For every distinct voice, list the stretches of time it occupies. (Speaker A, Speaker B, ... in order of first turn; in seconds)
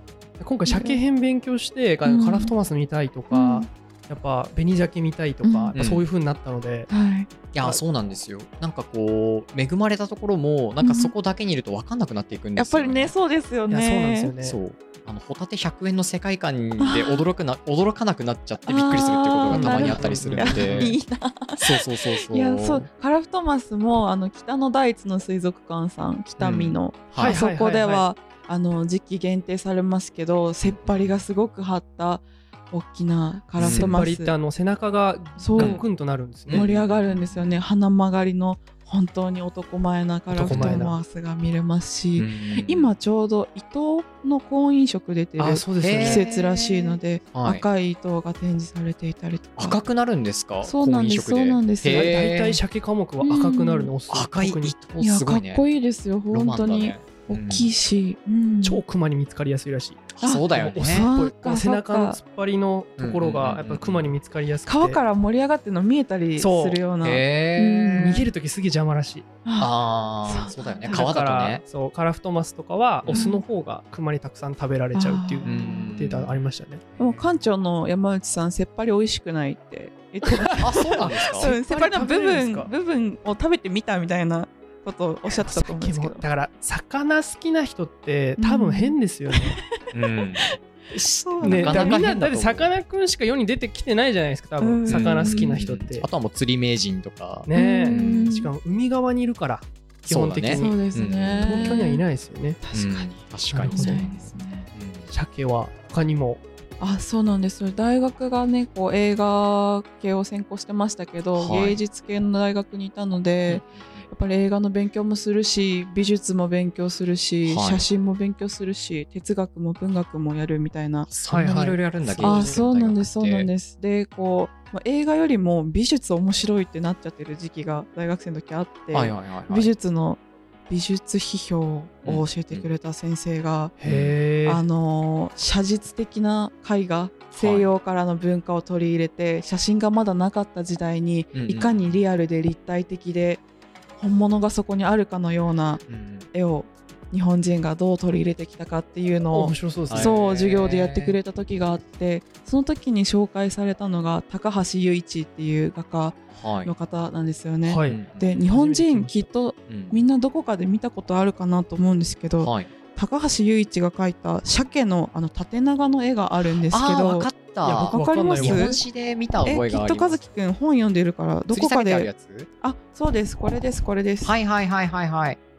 Speaker A: 0.4-6.9, 13.7-14.6, 19.5-21.0, 27.2-28.1, 33.6-36.7, 40.4-41.0, 45.4-46.2, 51.9-54.8, 58.6-65.0, 66.4-66.8, 68.0-69.3, 70.8-76.8, 80.2-82.7, 85.4-89.6, 91.4-96.1, 97.5-100.8, 101.4-102.6, 103.5-104.1, 105.1-106.4, 121.3-122.6, 133.8-134.6, 149.3-150.2, 157.6-159.2, 167.6-168.7
Speaker B: 0.7-1.0, 2.0-2.5, 3.3-3.7, 5.4-5.8, 6.9-7.3, 10.8-11.1, 12.6-14.3, 16.8-17.2, 18.6-34.3, 35.4-35.8, 36.5-49.8, 50.6-52.2, 53.2-53.9, 55.0-58.8, 60.2-62.2, 64.7-68.3, 69.4-71.0, 73.1-73.4, 74.9-76.0, 77.0-86.2, 88.4-89.6, 90.4-92.0, 94.6-95.6, 97.5-98.5, 100.5-102.0, 102.6-103.1, 103.7-104.7, 106.8-121.1, 122.2-133.7, 134.4-143.4, 144.0-168.8, 169.4-172.1, 172.6-174.3
Speaker C: 5.7-6.0, 7.5-13.1, 14.4-20.9, 21.6-22.9, 26.4-27.4, 30.6-31.2, 33.6-34.0, 35.6-35.8, 36.5-37.6, 40.3-40.9, 42.2-42.9, 45.8-47.6, 49.6-52.6, 54.1-55.6, 56.3-57.7, 60.1-61.1, 63.0-64.1, 67.0-68.2, 69.6-71.6, 73.0-73.3, 75.4-76.4, 76.9-77.3, 80.6-81.5, 89.9-90.5, 91.4-92.7, 94.9-98.3, 100.1-101.8, 102.7-105.1, 111.3-111.8, 113.5-114.1, 117.5-117.8, 121.1-123.5, 128.9-129.7, 132.0-132.7, 133.8-134.2, 137.3-137.7, 141.3-142.0, 145.9-146.3, 149.9-151.2, 156.3-156.7, 157.8-158.3, 159.7-160.0, 162.4-162.7, 166.7-170.2, 171.5-172.5, 174.2-175.4